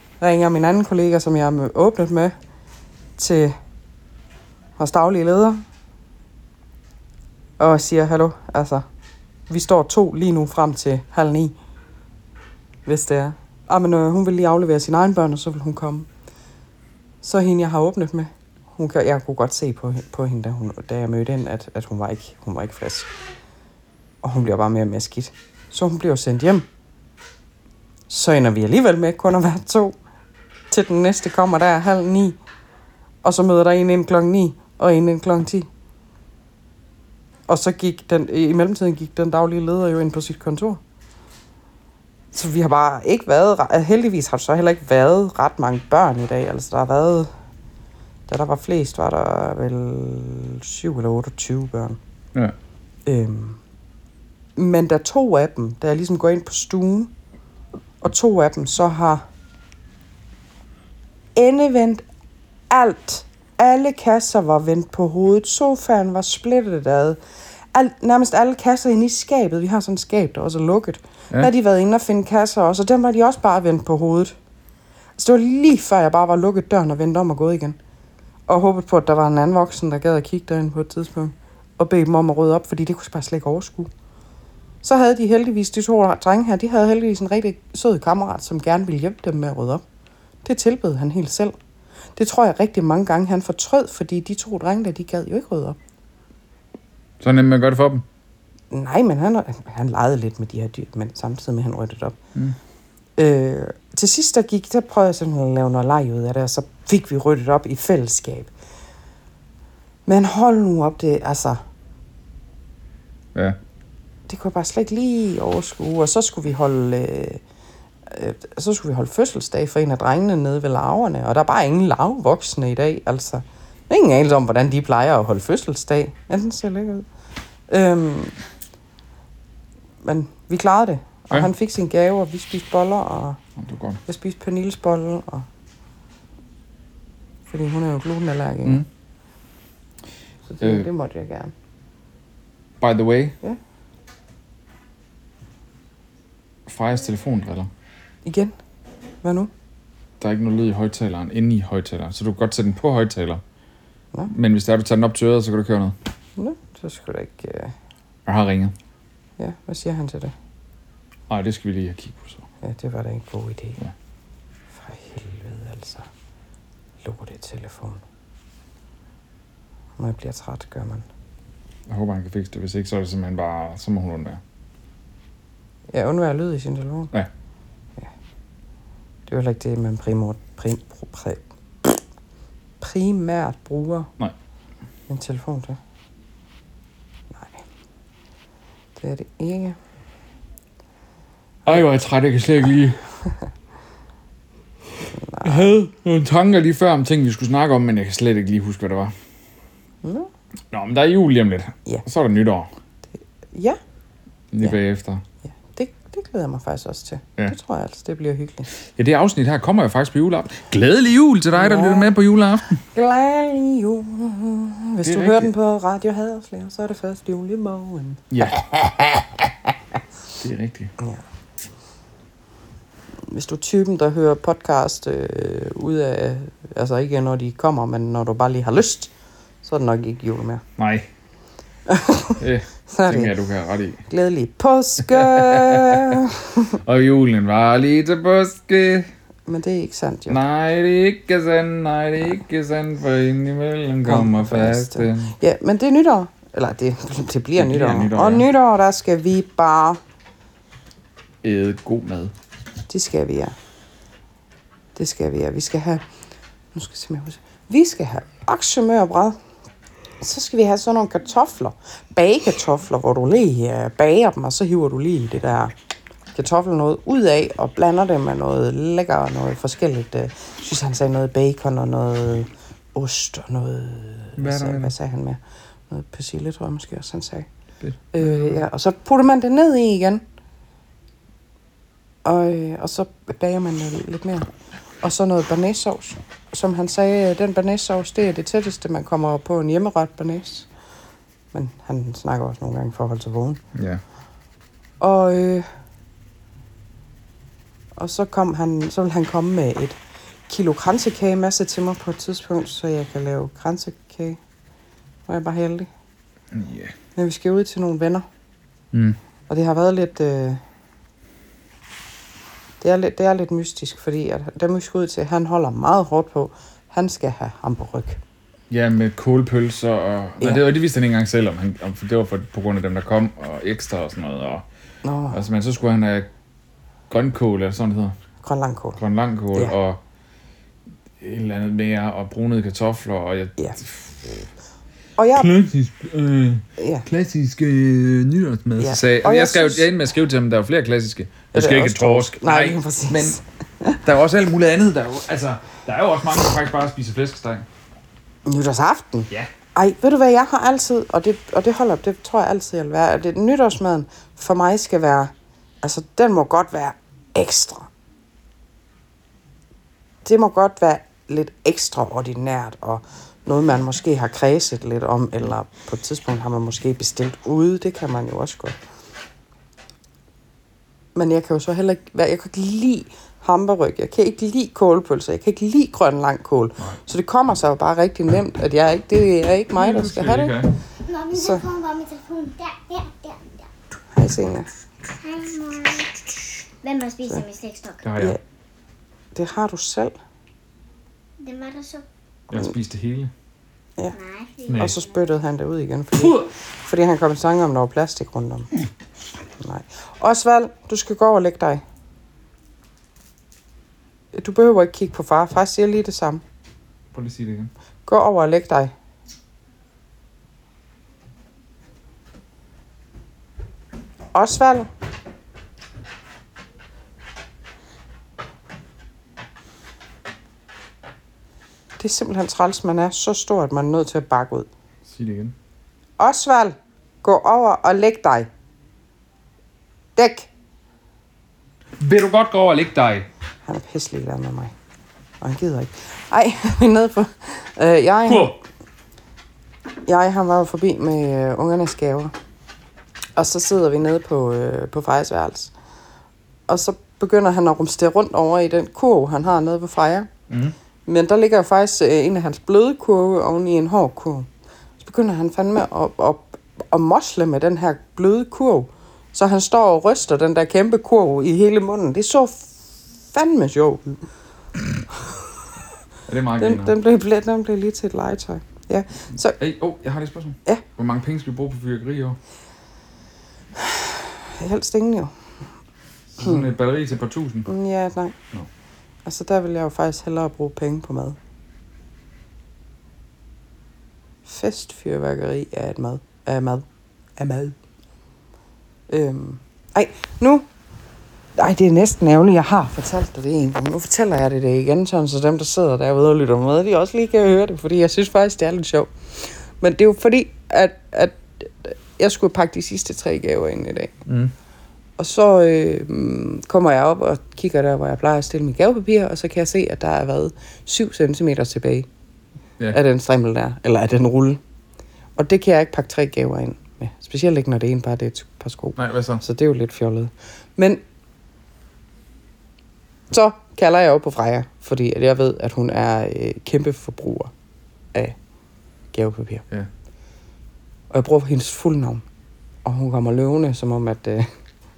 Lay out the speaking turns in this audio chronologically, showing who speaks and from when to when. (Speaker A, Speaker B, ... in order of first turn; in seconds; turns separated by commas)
Speaker A: 0.2-2.3, Speaker A: 3.2-3.6, Speaker A: 4.8-5.6, Speaker A: 7.6-8.8, Speaker A: 9.5-11.5, Speaker A: 12.9-16.1, Speaker A: 17.2-23.1, Speaker A: 24.2-26.6, Speaker A: 28.1-29.9, Speaker A: 30.7-32.4, Speaker A: 33.2-35.7, Speaker A: 37.5-40.8, Speaker A: 42.3-47.3, Speaker A: 48.3-52.0, Speaker A: 53.1-53.6, Speaker A: 54.6-57.1, Speaker A: 58.0-59.2, Speaker A: 61.4-62.0, Speaker A: 62.7-67.2, Speaker A: 67.7-74.3, Speaker A: 75.2-77.8, Speaker A: 78.5-83.9, Speaker A: 84.8-89.8, Speaker A: 90.5-91.5, Speaker A: 92.2-95.8, Speaker B: 97.2-98.0, Speaker A: 98.7-102.2, Speaker A: 103.2-108.5, Speaker A: 110.1-111.6, Speaker A: 114.3-117.4, Speaker A: 118.1-127.1, Speaker A: 127.7-128.4, Speaker A: 130.0-133.4, Speaker B: 133.6-134.0, Speaker A: 134.1-135.5, Speaker A: 137.5-138.8, Speaker A: 140.5-141.5, Speaker B: 140.6-140.9, Speaker B: 142.8-143.4, Speaker B: 146.7-147.7, Speaker A: 148.2-148.5, Speaker A: 149.2-149.5, Speaker B: 150.2-153.4, Speaker B: 154.3-156.0, Speaker A: 156.4-157.7, Speaker B: 158.2-158.8, Speaker A: 159.4-160.3, Speaker B: 161.3-162.4, Speaker A: 162.6-163.8, Speaker A: 164.8-166.1, Speaker A: 167.0-168.0, Speaker A: 170.0-171.0, Speaker B: 171.9-174.4, Speaker A: 175.9-177.1, Speaker A: 179.3-182.0, Speaker A: 182.8-184.1, Speaker A: 185.1-185.8, Speaker A: 187.3-187.6, Speaker A: 189.0-189.8, Speaker B: 191.7-193.0, Speaker A: 195.1-195.8, Speaker B: 195.4-199.1, Speaker A: 200.0-200.3, Speaker B: 200.7-202.7, Speaker A: 203.5-203.8, Speaker B: 204.5-205.2, Speaker A: 205.5-208.7, Speaker B: 209.0-212.8, Speaker A: 211.5-212.1, Speaker A: 212.9-218.6, Speaker B: 215.0-215.5, Speaker B: 218.3-219.3, Speaker B: 220.4-220.9, Speaker A: 223.3-229.1, Speaker A: 229.6-230.6, Speaker B: 230.8-231.1, Speaker A: 231.9-233.3, Speaker B: 232.4-234.0, Speaker A: 234.1-236.8, Speaker B: 235.1-236.2, Speaker B: 236.8-239.1, Speaker A: 239.5-240.4, Speaker B: 240.3-245.3, Speaker A: 244.0-250.0, Speaker B: 247.6-248.5, Speaker B: 251.4-252.3, Speaker A: 252.9-253.5, Speaker A: 255.0-256.0, Speaker A: 256.7-259.4, Speaker A: 260.2-265.7, Speaker A: 266.3-277.5, Speaker B: 274.4-274.9, Speaker B: 277.8-278.6, Speaker A: 278.1-280.2, Speaker A: 282.2-284.5, Speaker A: 285.0-290.7, Speaker A: 291.5-293.6, Speaker B: 293.8-294.0, Speaker A: 295.0-295.7, Speaker A: 297.9-300.0, Speaker A: 300.5-304.4, Speaker A: 305.3-305.9, Speaker B: 306.5-306.9, Speaker A: 307.1-308.3, Speaker B: 308.9-309.2, Speaker A: 309.5-310.6, Speaker A: 312.8-318.2, Speaker B: 318.7-324.6, Speaker A: 325.0-325.4, Speaker B: 325.3-326.3, Speaker B: 327.1-328.1, Speaker A: 328.4-329.0, Speaker B: 329.0-330.0, Speaker B: 331.2-334.4, Speaker A: 335.2-335.5, Speaker B: 335.4-343.4, Speaker A: 336.8-337.1, Speaker A: 338.8-339.9, Speaker A: 341.5-344.0, Speaker B: 344.0-347.7, Speaker A: 348.4-357.9, Speaker A: 360.2-368.8, Speaker A: 371.1-380.6, Speaker B: 379.8-380.7, Speaker C: 381.1-383.7, Speaker A: 381.3-381.6, Speaker A: 384.1-384.7, Speaker C: 385.2-386.1, Speaker C: 386.8-388.0, Speaker B: 388.0-388.4, Speaker A: 389.3-390.2, Speaker C: 391.4-392.0, Speaker B: 392.5-393.3, Speaker C: 394.1-395.1, Speaker B: 394.7-394.9, Speaker A: 394.8-398.7, Speaker B: 396.2-396.5, Speaker A: 399.6-401.8, Speaker A: 404.3-406.4, Speaker B: 407.1-407.7, Speaker A: 408.1-408.9, Speaker A: 414.3-414.9, Speaker A: 422.0-424.7, Speaker B: 425.1-425.6, Speaker A: 426.2-428.5, Speaker A: 430.1-430.5, Speaker B: 432.0-433.3, Speaker A: 433.6-434.7, Speaker A: 435.4-438.5, Speaker B: 438.2-438.6, Speaker A: 440.1-442.3, Speaker A: 443.4-445.7, Speaker A: 446.7-450.3, Speaker B: 450.5-450.8, Speaker A: 451.1-454.5, Speaker A: 455.0-464.2, Speaker B: 466.3-466.9, Speaker A: 466.6-469.6, Speaker B: 469.6-472.4, Speaker A: 473.8-475.3, Speaker B: 476.4-477.7, Speaker A: 477.7-478.4, Speaker A: 479.2-481.4, Speaker A: 484.4-486.9, Speaker A: 487.4-487.8, Speaker A: 489.1-490.6, Speaker A: 491.6-504.1, Speaker B: 504.3-504.5, Speaker A: 505.2-512.1, Speaker A: 512.9-514.6, Speaker A: 515.4-521.0, Speaker B: 519.0-519.4, Speaker A: 523.3-527.5, Speaker A: 529.1-529.6, Speaker A: 531.1-532.2, Speaker A: 532.9-534.5